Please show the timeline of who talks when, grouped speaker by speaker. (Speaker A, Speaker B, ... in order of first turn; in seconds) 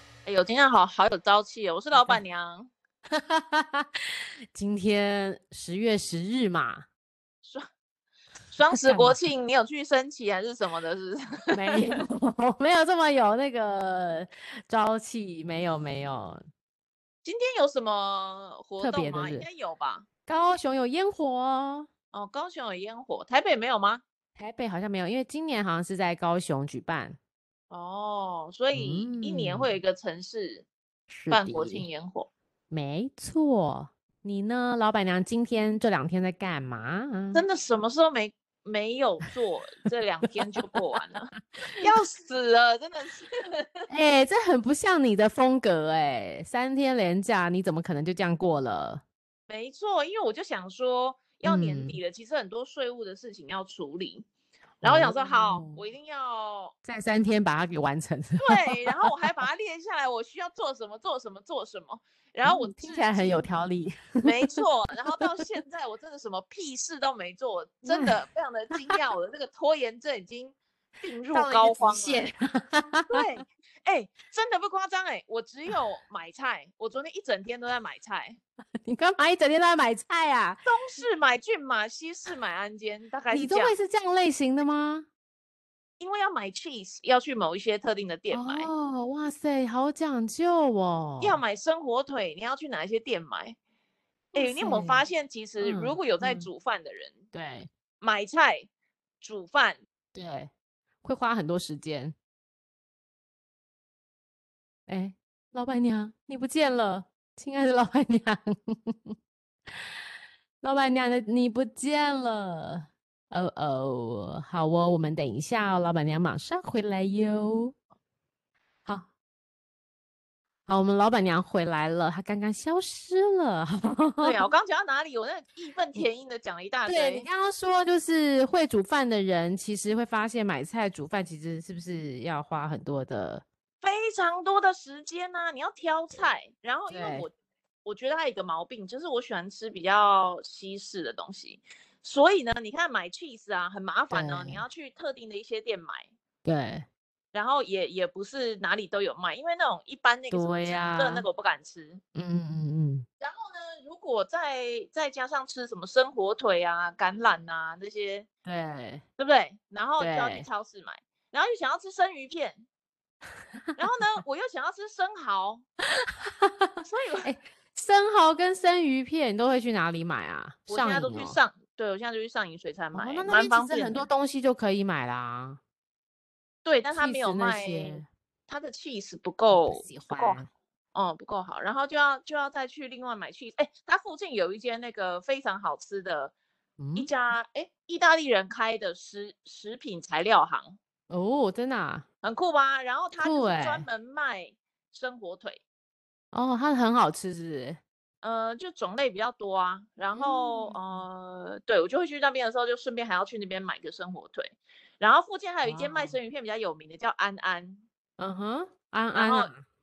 Speaker A: 0.2-2.7, 8.5-12.0, 17.2-20.1, 22.1-24.0, 27.7-30.7, 31.3-32.3, 37.3-43.9, 49.5-54.2, 54.8-56.7, 58.4-63.4, 64.2-72.3, 73.1-78.4, 80.7-83.8, 86.0-88.7, 91.2-93.5, 94.3-97.2, 98.0-98.7, 99.2-99.8, 124.2-127.2, 133.8-137.3, 137.8-146.1, 147.3-152.0, 153.2-158.3, 159.2-162.6, 163.8-165.6, 166.8-167.3, 170.7-174.1, 176.6-180.4, 180.9-186.3, 186.9-190.8, 192.2-195.6, 198.2-207.8, 209.1-209.5
Speaker B: 1.9-2.2, 3.1-6.8, 8.7-9.2, 11.5-16.4, 18.8-19.5, 20.3-21.9, 24.4-27.2, 28.7-29.7, 31.1-31.9, 32.7-37.4, 43.9-49.0, 51.4-52.0, 54.8-55.8, 56.8-59.0, 62.4-64.3, 67.8-68.2, 71.3-73.2, 78.8-80.7, 83.3-85.1, 88.3-91.4, 94.3-95.0, 95.6-96.5, 97.3-97.7, 100.1-100.5, 101.0-102.2, 104.9-109.1, 110.6-117.7, 120.7-124.4, 126.8-133.4, 136.9-137.3, 144.1-144.6, 146.4-146.8, 150.3-151.2, 152.1-153.1, 158.4-159.0, 160.0-160.4, 166.0-166.7, 167.2-171.4, 172.9-175.6, 176.9-178.1, 179.5-180.5, 186.8-187.1, 191.1-192.1, 193.2-193.8, 196.3-197.8, 200.1-201.0, 205.6-206.2, 208.2-209.6